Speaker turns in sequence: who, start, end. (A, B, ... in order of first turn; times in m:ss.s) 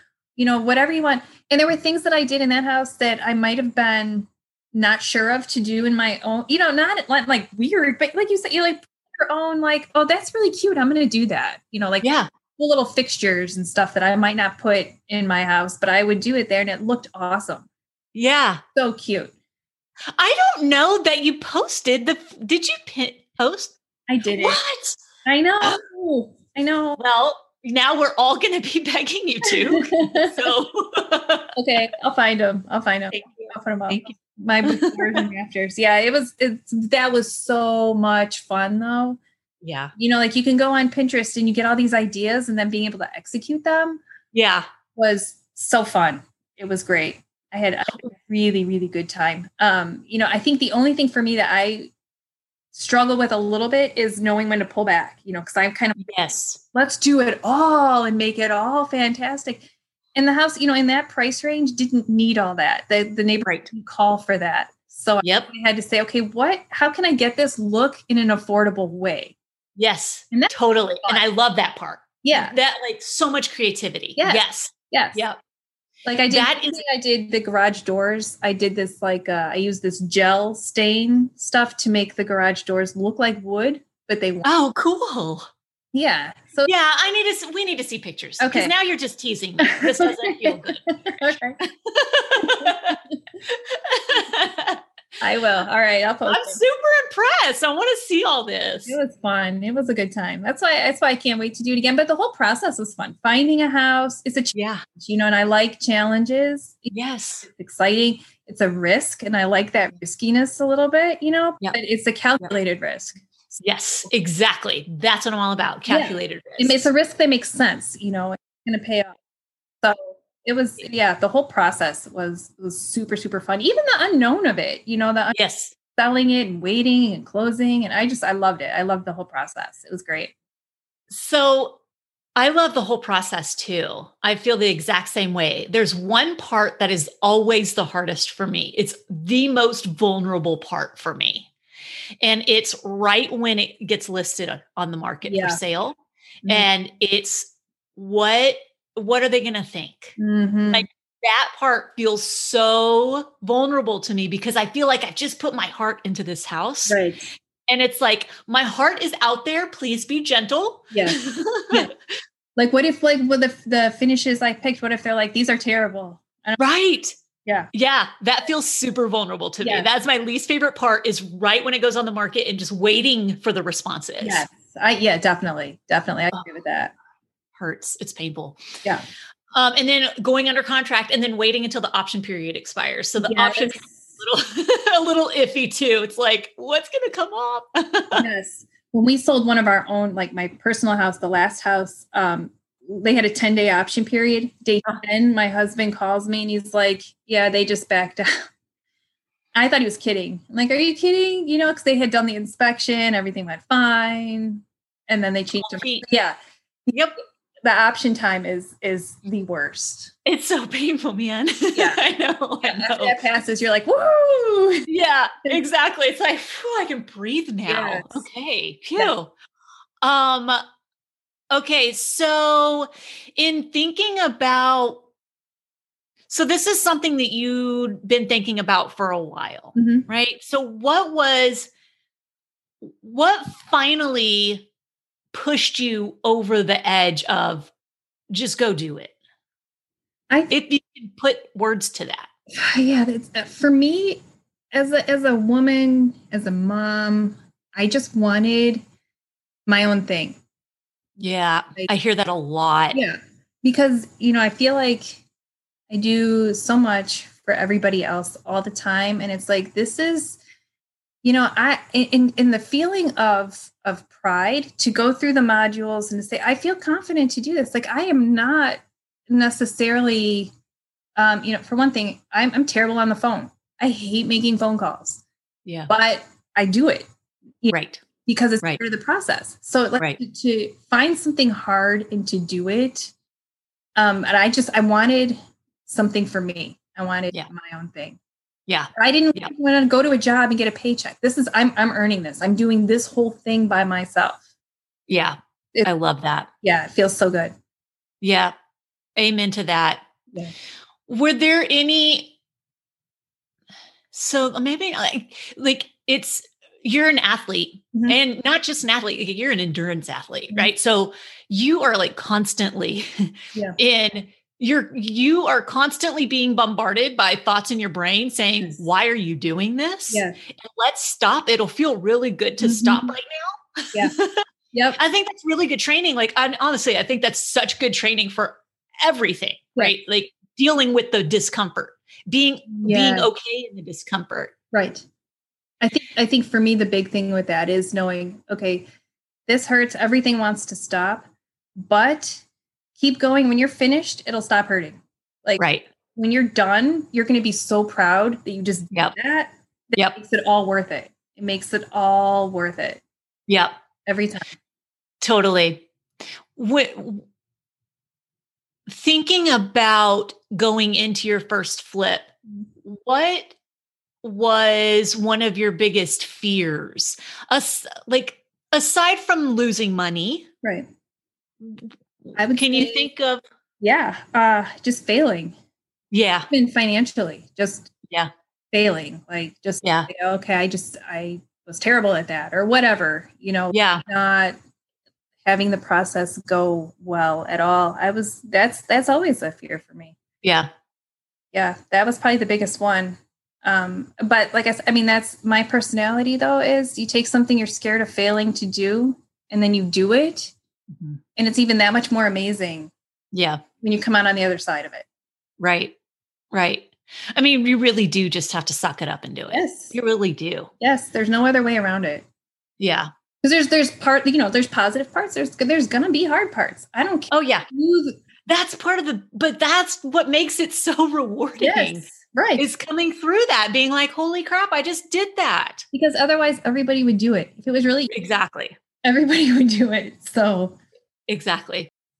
0:00.4-0:17.7 A
0:12.0-0:12.3 B
0:18.1-0:18.6 B
0:18.7-0:19.3 A
0:20.2-0:23.8 B
0:24.1-0:24.6 A
0:24.3-0:25.0 B
0:25.2-0:27.0 A
0:27.0-0:31.5 B
0:29.4-0:30.5 A
0:31.6-0:39.2 A
0:33.1-0:35.2 B
0:39.6-0:39.9 B
0:40.0-0:44.0 A
0:44.3-0:44.6 B
0:45.0-0:51.9 A
0:52.7-0:56.0 A
0:56.0-0:56.6 B
0:56.7-1:09.3 A
1:03.4-1:03.7 B
1:05.2-1:05.5 B
1:09.8-1:15.4 B
1:10.3-1:11.2 A
1:12.2-1:12.5 A
1:14.2-1:15.2 A
1:16.0-1:24.5 A
1:16.3-1:16.8 B
1:24.4-1:25.5 B
1:25.9-1:26.7 A
1:26.6-1:34.8 B
1:28.4-1:28.7 A
1:29.6-1:31.6 A
1:32.4-1:32.9 A
1:35.2-1:36.6 A
1:36.2-1:39.0 B
1:38.9-1:46.9 A
1:44.5-1:44.8 B
1:46.9-1:47.5 B
1:47.4-1:53.2 A
1:53.6-1:56.8 B
1:55.9-1:59.2 A
1:59.8-2:05.4 A
2:05.3-2:05.7 B
2:05.9-2:10.3 A
2:11.1-2:11.8 B
2:12.4-2:21.5 B
2:22.2-2:30.2 B
2:25.2-2:25.6 A
2:30.2-2:30.9 A
2:30.7-2:37.0 B
2:36.9-2:37.3 A
2:37.7-2:42.2 B
2:40.9-2:41.2 A
2:42.6-2:46.6 A
2:46.6-2:47.1 B
2:47.7-2:54.5 B
2:49.6-2:49.9 A
2:54.2-2:56.9 A
2:57.6-2:58.6 B
2:59.5-3:08.2 B
3:03.2-3:04.1 A
3:08.1-3:18.4 A
3:19.5-3:26.4 A
3:25.6-3:26.0 B
3:26.9-3:27.2 B
3:27.6-3:30.1 A
3:30.2-3:33.2 B
3:31.7-3:32.0 A
3:32.6-3:34.9 A
3:34.8-3:39.3 B
3:37.6-3:38.2 A
3:40.0-3:40.6 B
3:41.5-3:45.0 B
3:46.3-3:51.7 B
3:49.7-3:50.1 A
3:52.8-3:54.7 B
3:55.3-3:57.7 B
3:58.3-3:59.1 B
4:00.5-4:02.3 B
4:02.5-4:04.2 A
4:04.7-4:08.8 A
4:09.7-4:10.4 A
4:11.2-4:13.0 B
4:12.9-4:15.2 A
4:15.9-4:20.4 A
4:21.2-4:30.5 A
4:31.2-4:35.2 A
4:35.9-4:37.0 A
4:37.7-4:38.0 B
4:38.2-4:43.1 A
4:44.0-4:48.2 A
4:48.7-4:49.5 B
4:49.0-4:54.4 A
4:55.1-4:56.5 B
4:56.6-4:57.5 A
4:58.2-4:58.5 B
4:59.2-5:00.1 B
5:01.1-5:02.3 B
5:04.1-5:24.4 B
5:20.1-5:20.4 A
5:22.6-5:23.1 A
5:24.7-5:25.0 A
5:25.0-5:34.5 B
5:32.7-5:33.3 A
5:34.7-5:35.0 A
5:35.8-5:38.8 A
5:39.5-5:41.3 A
5:41.8-5:42.4 A
5:43.0-5:53.0 A
5:45.6-5:45.9 B
5:53.5-5:53.8 B
5:54.0-5:54.4 A
5:55.2-5:55.9 B
5:56.6-5:57.2 B
5:58.9-6:02.3 B
6:02.8-6:03.5 B
6:04.2-6:10.5 B
6:11.6-6:13.4 B
6:12.3-6:13.1 A
6:13.8-6:15.6 A
6:16.1-6:16.5 B
6:16.5-6:17.9 A
6:18.7-6:24.6 A
6:19.8-6:20.1 B
6:23.7-6:24.0 B
6:25.4-6:30.2 A
6:30.4-6:30.7 B
6:31.5-6:40.5 A
6:41.4-6:42.9 A
6:43.3-6:43.6 B
6:43.8-6:45.0 A
6:45.6-6:45.9 B
6:46.5-6:50.7 B
6:49.5-6:49.9 A
6:50.8-6:52.2 A
6:52.8-6:53.1 B
6:53.4-6:58.2 A
6:57.3-6:57.7 B
6:58.4-7:05.8 B
7:01.6-7:02.6 A
7:05.9-7:08.1 A
7:08.1-7:08.7 B
7:09.0-7:10.8 A
7:11.3-7:11.9 B